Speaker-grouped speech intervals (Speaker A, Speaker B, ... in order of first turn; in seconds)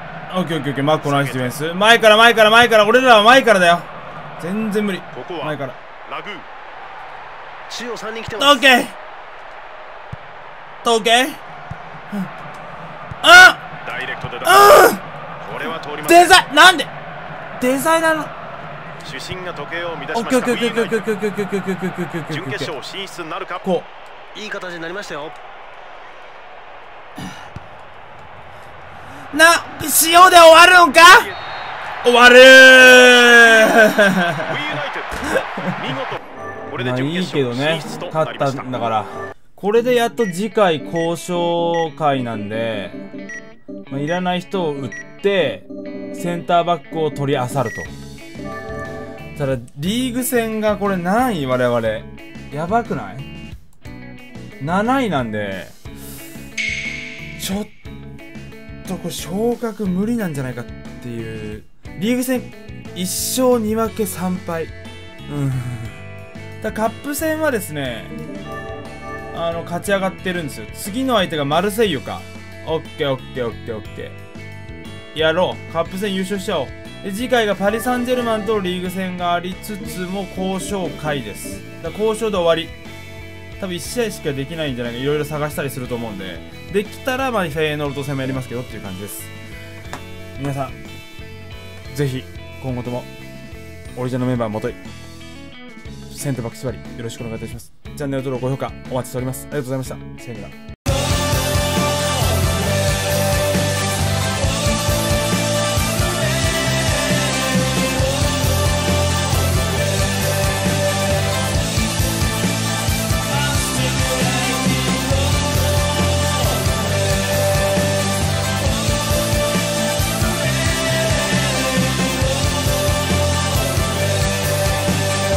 Speaker A: 0.3-5.8, 8.4-8.9, 10.8-11.4, 13.2-13.6, 14.4-15.0, 16.0-16.9, 17.6-18.3, 20.1-22.7, 23.6-23.9, 29.3-31.3, 32.0-34.6, 35.3-35.7, 36.8-43.0, 43.9-47.9, 49.4-53.3, 54.6-55.7, 57.4-57.7, 58.8-64.7, 65.3-66.0, 66.6-68.2, 69.3-74.2, 75.1-82.7, 83.6-89.3, 90.3-90.7, 91.9-93.1, 94.0-94.8, 96.1-100.5, 113.4-115.4, 121.0-121.9
Speaker B: 1.0-1.6, 5.1-6.5, 13.8-14.8, 15.4-16.3, 19.0-21.1, 22.3-23.7, 31.1-31.4, 32.8-38.7
Speaker C: 7.7-8.6, 24.3-25.4